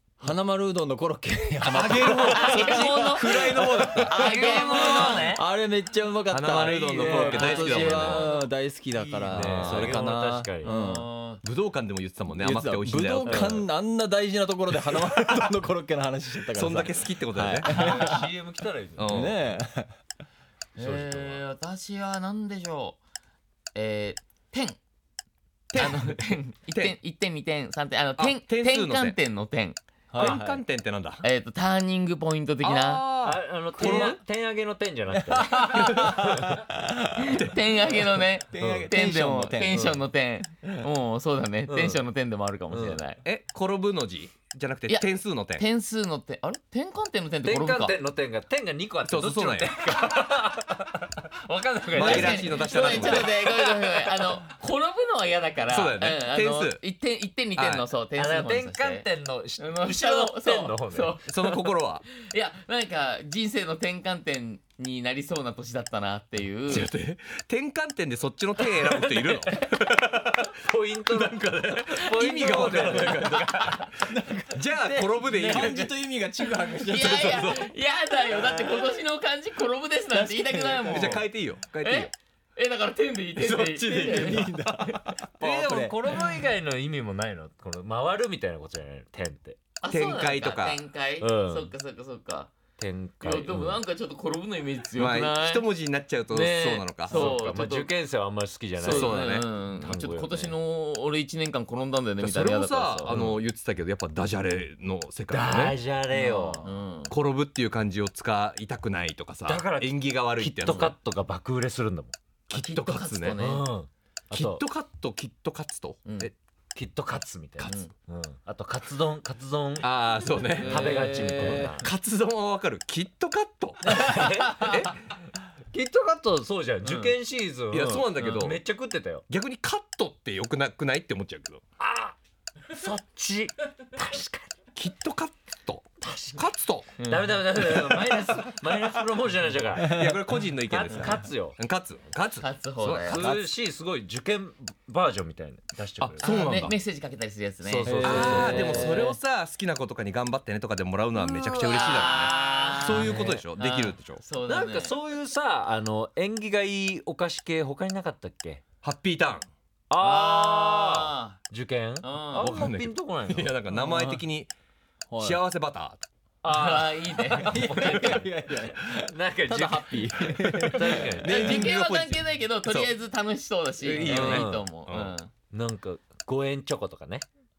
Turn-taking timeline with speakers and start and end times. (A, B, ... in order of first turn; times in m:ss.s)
0:00.2-0:11.1 A
0:01.7-0:02.5 B
0:02.2-0:05.4 C
0:03.2-0:04.1 B
0:04.1-0:05.5 D
0:06.3-0:08.3 B
0:06.7-0:08.4 D
0:07.3-0:08.0 C
0:08.9-0:11.4 D
0:09.5-0:10.0 B
0:10.6-0:11.3 C
0:11.4-0:13.7 B
0:12.3-0:18.3 A
0:13.2-0:13.6 D
0:16.5-0:17.7 B
0:17.6-0:19.3 D
0:19.0-0:19.4 B
0:19.1-0:19.9 A
0:20.8-0:23.0 C
0:20.8-0:21.4 D
0:23.7-0:24.8 C
0:25.7-0:27.0 B
0:25.7-0:30.3 C
0:28.2-0:29.2 B
0:30.1-0:30.6 A
0:30.2-0:31.2 B
0:31.2-0:33.0 C
0:32.6-0:34.2 B
0:33.2-0:36.6 D
0:35.3-0:37.4 A
0:35.7-0:36.0 B
0:37.2-0:43.2 C
0:38.5-0:40.0 A
0:38.6-0:38.8 D
0:39.7-0:40.0 D
0:41.7-0:42.0 D
0:42.7-0:43.0 D
0:43.2-0:45.6 B
0:44.9-0:48.0 C
0:47.4-0:54.4 D
0:49.0-0:50.0 B
0:51.9-0:53.4 B
0:51.9-0:59.1 C
0:55.7-0:56.8 B
0:57.6-0:57.9 B
0:58.1-1:01.2 D
0:59.6-1:01.5 C
1:01.2-1:02.0 B
1:02.1-1:06.9 C
1:06.7-1:10.6 B
1:08.6-1:13.9 D
1:11.1-1:13.8 B
1:14.0-1:17.5 A
1:14.5-1:16.0 B
1:16.8-1:21.2 C
1:17.0-1:17.7 B
1:18.3-1:18.9 A
1:20.1-1:21.2 A
1:20.9-1:22.1 B
1:21.8-1:24.9 C
1:23.4-1:25.1 B
1:24.2-1:26.4 A
1:25.4-1:29.6 D
1:29.8-1:32.5 C
1:29.9-1:30.8 B
1:31.2-1:31.7 D
1:32.8-1:33.8 D
1:33.2-1:35.6 C
1:34.9-1:37.3 B
1:36.3-1:40.5 D
1:37.1-1:37.9 C
1:38.8-1:39.5 B
1:38.8-1:43.2 C
1:42.2-1:45.8 B
1:43.1-1:43.4 D
1:45.3-1:46.7 D
1:46.1-1:47.1 C
1:47.1-1:51.0 B
1:49.4-1:52.1 D
1:52.5-1:53.4 B
1:52.5-1:53.6 C
1:53.4-1:54.6 D
1:54.3-1:56.3 B
1:56.0-1:56.3 C
1:56.7-2:01.9 D
1:57.6-1:57.9 C
1:59.8-2:00.8 B
2:00.6-2:01.7 C
2:01.7-2:04.0 B
2:03.8-2:05.0 D
2:04.6-2:05.0 B
2:05.7-2:09.2 D
2:06.8-2:07.1 C
2:07.7-2:08.6 B
2:09.3-2:11.6 B
2:11.8-2:12.1 D
2:12.7-2:14.5 D
2:14.8-2:17.0 B
2:16.0-2:16.4 D
2:17.0-2:17.4 C
2:17.0-2:20.0 D
2:19.8-2:20.2 A
2:19.9-2:23.2 B
2:20.6-2:21.6 D
2:22.4-2:23.3 C
2:23.0-2:26.5 D
2:23.1-2:23.5 A
2:26.2-2:26.8 B
2:26.2-2:28.9 C
2:27.6-2:29.2 D
2:27.9-2:29.0 A
2:28.0-2:34.2 B
2:31.2-2:35.0 C
2:32.8-2:33.4 D
2:34.4-2:38.6 D
2:38.8-2:39.5 B
2:39.9-2:43.6 D
2:40.0-2:41.4 C
2:42.0-2:42.5 C
2:42.4-2:44.5 B
2:43.7-2:44.2 A
2:45.1-2:45.4 A
2:45.2-2:46.0 B
2:46.4-2:51.6 D
2:46.4-2:48.2 C
2:47.4-2:51.2 A
2:51.1-2:52.9 B
2:51.2-2:55.3 C
2:53.8-2:55.1 B
2:54.0-2:54.6 D
2:55.5-2:57.2 D